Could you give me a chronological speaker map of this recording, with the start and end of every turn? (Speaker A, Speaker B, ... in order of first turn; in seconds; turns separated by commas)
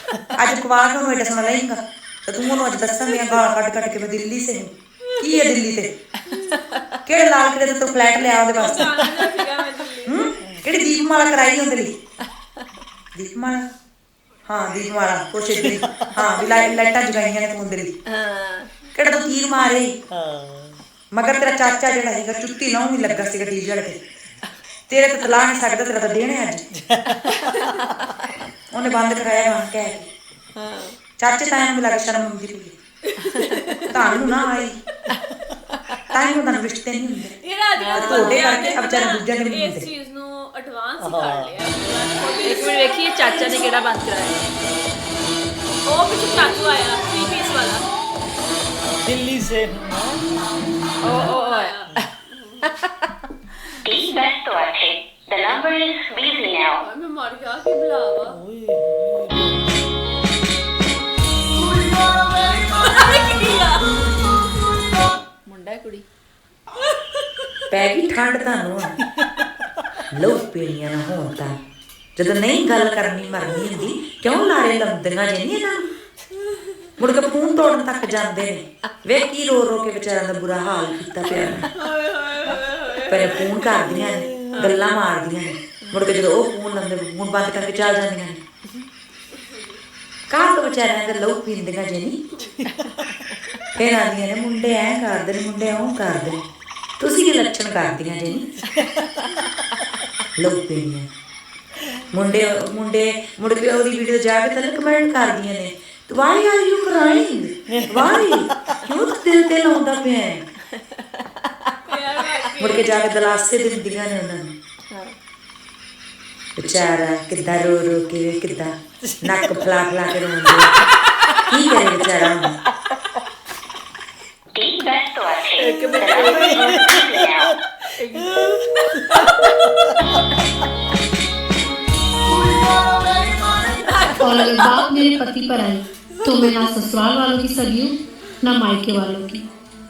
Speaker A: 0.3-5.9, Speaker B: 6.3-6.8, Speaker C: 6.3-6.6, Speaker A: 7.0-9.1, Speaker B: 8.5-10.3, Speaker A: 10.0-11.9, Speaker A: 13.1-13.7, Speaker A: 14.4-17.9, Speaker D: 15.6-16.1, Speaker C: 18.1-18.7, Speaker A: 18.9-20.0, Speaker D: 20.1-20.8, Speaker A: 21.1-24.0, Speaker A: 24.9-26.7, Speaker D: 26.7-27.8, Speaker C: 27.3-27.9, Speaker A: 28.7-30.1, Speaker C: 30.5-31.0, Speaker A: 31.2-32.8, Speaker C: 33.2-33.9, Speaker B: 33.4-33.9, Speaker A: 33.9-34.8, Speaker A: 36.1-37.4, Speaker B: 37.4-43.7, Speaker C: 37.8-38.5, Speaker A: 37.9-39.9, Speaker D: 41.0-41.7, Speaker C: 42.4-44.4, Speaker B: 45.9-47.8, Speaker D: 48.8-50.5, Speaker C: 51.0-51.7, Speaker D: 51.0-51.3, Speaker B: 51.1-52.7, Speaker E: 53.8-56.8, Speaker B: 56.6-58.4, Speaker D: 58.3-59.8, Speaker B: 61.6-64.1, Speaker C: 65.5-66.0, Speaker A: 67.7-68.9, Speaker A: 70.1-71.6, Speaker A: 72.2-75.9, Speaker A: 77.0-81.7, Speaker B: 81.7-83.5, Speaker A: 83.0-88.4, Speaker D: 83.7-84.5, Speaker B: 89.3-89.8, Speaker A: 90.3-92.2, Speaker A: 93.7-96.4, Speaker A: 97.0-98.7, Speaker D: 98.7-99.4, Speaker A: 100.3-101.1, Speaker A: 102.1-110.5, Speaker D: 107.7-108.8, Speaker C: 110.7-111.7, Speaker B: 111.8-113.0, Speaker A: 112.6-114.5, Speaker C: 114.9-115.1, Speaker A: 116.5-120.8, Speaker D: 119.0-119.8, Speaker A: 121.5-122.6, Speaker E: 124.5-127.5, Speaker C: 125.6-126.9, Speaker D: 125.8-129.9, Speaker C: 128.0-128.6, Speaker B: 133.7-134.7, Speaker F: 134.1-139.5